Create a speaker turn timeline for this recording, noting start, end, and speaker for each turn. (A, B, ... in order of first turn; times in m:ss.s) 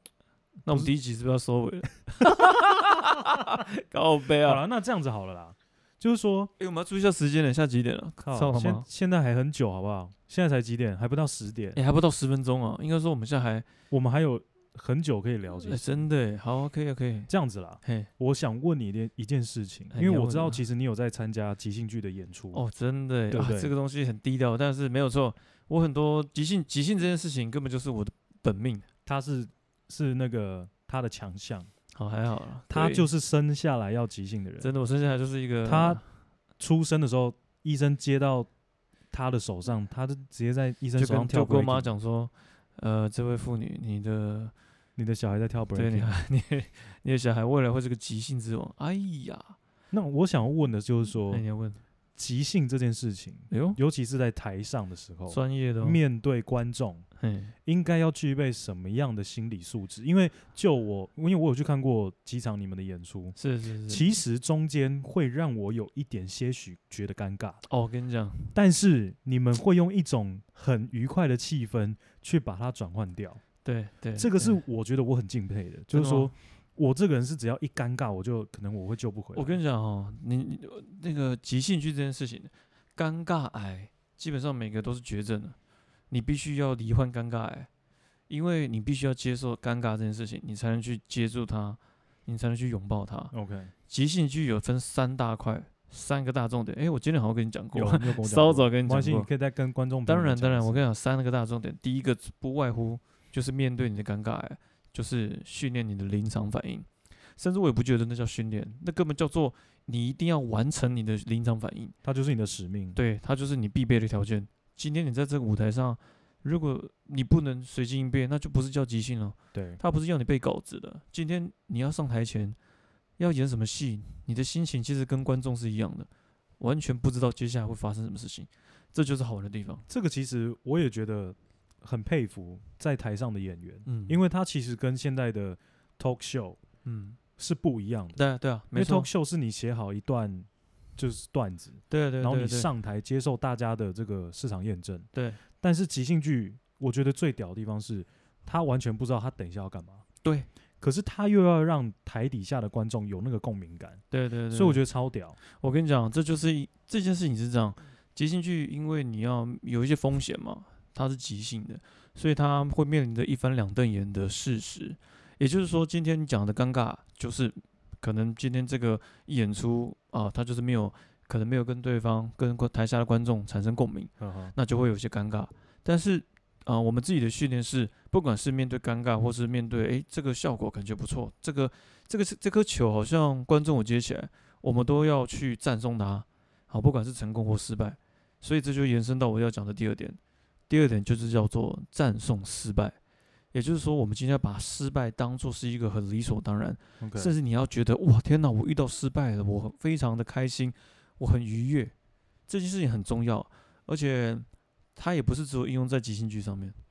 0:00.6-0:04.6 A
0:04.4-0:06.5 B
0:06.6-0:08.8 A
0:08.2-0:11.8 B
0:11.7-0:13.6 A
0:13.9-0:15.8 B
0:15.5-0:17.3 A
0:17.3-0:22.6 B
0:17.8-0:18.1 A
0:19.9-0:20.6 A
0:22.5-0:28.8 A
0:23.3-0:23.7 B
0:29.0-0:31.7 B
0:31.9-0:33.1 A
0:32.7-0:34.7 B
0:34.6-0:36.0 A
0:35.6-0:36.0 B
0:36.6-0:38.5 B
0:39.1-0:41.9 B
0:41.0-0:44.5 A
0:45.0-0:46.1 B
0:45.7-0:49.6 A
0:49.9-0:51.4 B
0:51.3-0:51.8 A
0:52.2-0:57.0 B
0:53.5-0:53.8 A
0:55.3-0:56.0 A
0:57.2-0:57.5 A
0:57.6-1:03.4 B
1:03.4-1:04.1 A
1:03.9-1:07.6 B
1:07.7-1:08.5 A
1:08.5-1:13.4 B
1:13.6-1:14.6 A
1:14.2-1:19.6 B
1:15.9-1:16.3 A
1:19.3-1:25.6 A
1:26.1-1:27.7 A
1:28.3-1:33.3 A
1:33.3-1:33.7 B
1:33.9-1:39.3 A
1:37.7-1:40.8 B
1:40.0-1:51.9 A
1:52.0-1:53.0 B
1:52.9-2:02.6 A
1:59.5-1:59.8 B
2:03.2-2:06.1 A
2:06.6-2:09.8 A
2:09.9-2:16.6 B
2:13.8-2:14.2 A
2:16.8-2:17.2 A
2:17.4-2:18.2 B
2:18.1-2:19.1 A
2:18.7-2:25.1 B
2:21.9-2:22.7 A
2:25.1-2:25.4 A
2:25.6-2:30.0 B
2:30.8-2:35.4 B
2:34.1-2:34.8 A
2:35.5-3:13.0 A
2:54.2-2:54.5 B
3:13.5-3:21.9 A
3:17.0-3:17.3 B
3:22.5-3:26.8 A